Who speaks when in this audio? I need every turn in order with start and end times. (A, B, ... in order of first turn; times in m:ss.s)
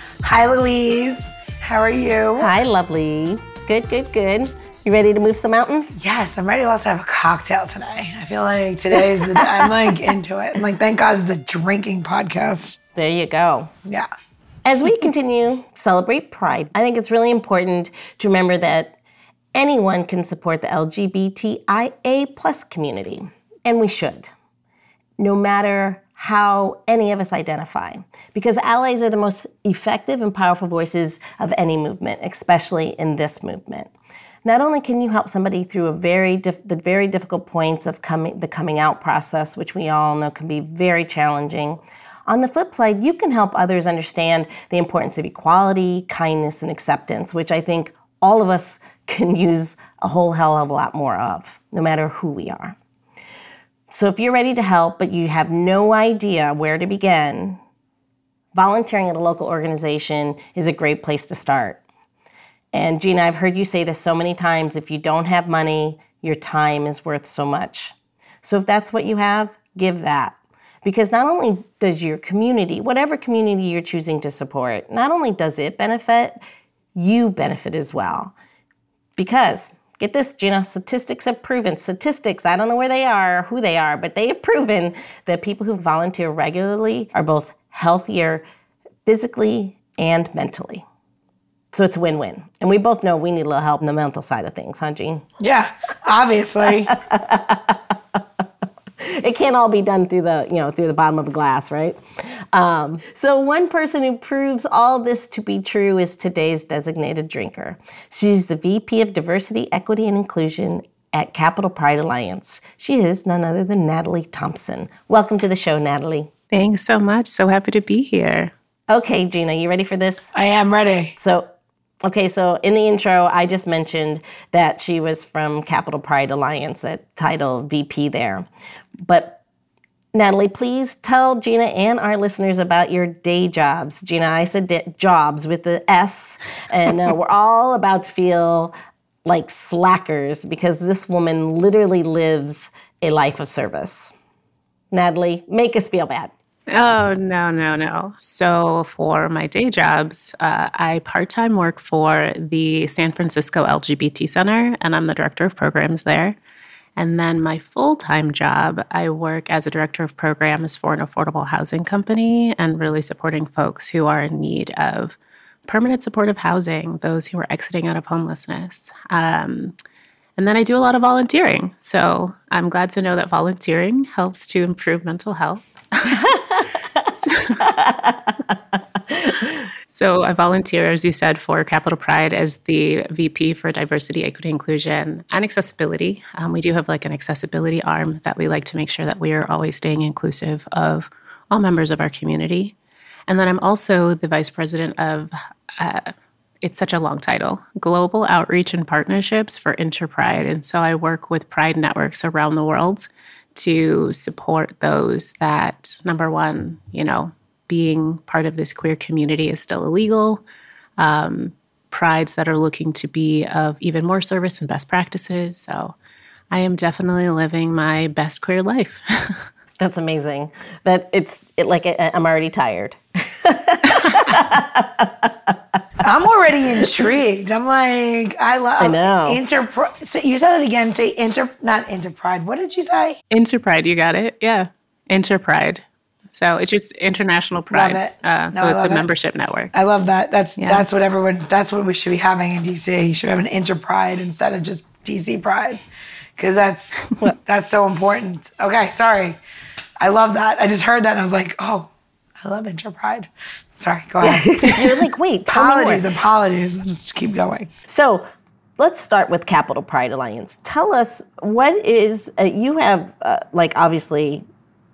0:00.2-0:02.5 A
0:02.4-0:06.0 B
0:06.0-0:12.8 A
0:13.0-0:13.7 B
0:14.6-0:19.0 B
0:19.5-0:24.3 B
0:25.2-0:33.9 B
0:34.4-0:52.8 B
0:53.9-0:57.6 B
0:58.5-1:01.8 B
1:02.7-1:16.4 B
1:17.0-1:18.4 B
1:19.2-1:28.4 B
1:29.0-1:30.8 B
1:31.7-1:35.2 B
1:35.4-1:37.0 A
1:37.0-1:38.2 B
1:39.0-1:56.3 B
1:56.5-1:58.5 C
1:58.9-2:00.3 B
2:00.3-2:01.2 A
2:01.2-2:01.5 B
2:02.0-2:08.5 B
2:09.0-2:09.4 B
2:10.1-2:18.7 B
2:19.2-2:24.1 B
2:24.9-2:26.3 B
2:26.7-2:36.4 C
2:37.0-2:49.8 C
2:50.4-2:56.3 C
2:56.1-2:59.7 B
2:57.2-2:57.6 C
2:59.9-3:12.8 C
3:13.3-3:16.1 C
3:16.6-3:30.4 C
3:31.0-3:36.0 C
3:36.5-3:39.5 C
3:39.8-3:45.8 B
3:43.9-3:44.4 C
3:46.0-3:53.2 A
3:48.8-3:49.4 B
3:53.3-3:59.7 C
3:57.7-3:59.1 A
3:59.7-4:05.8 A
4:00.6-4:00.9 C
4:06.4-4:09.4 A
4:10.0-4:11.9 A
4:12.4-4:17.7 A
4:14.2-4:16.1 B
4:17.9-4:18.3 B
4:18.8-4:24.5 B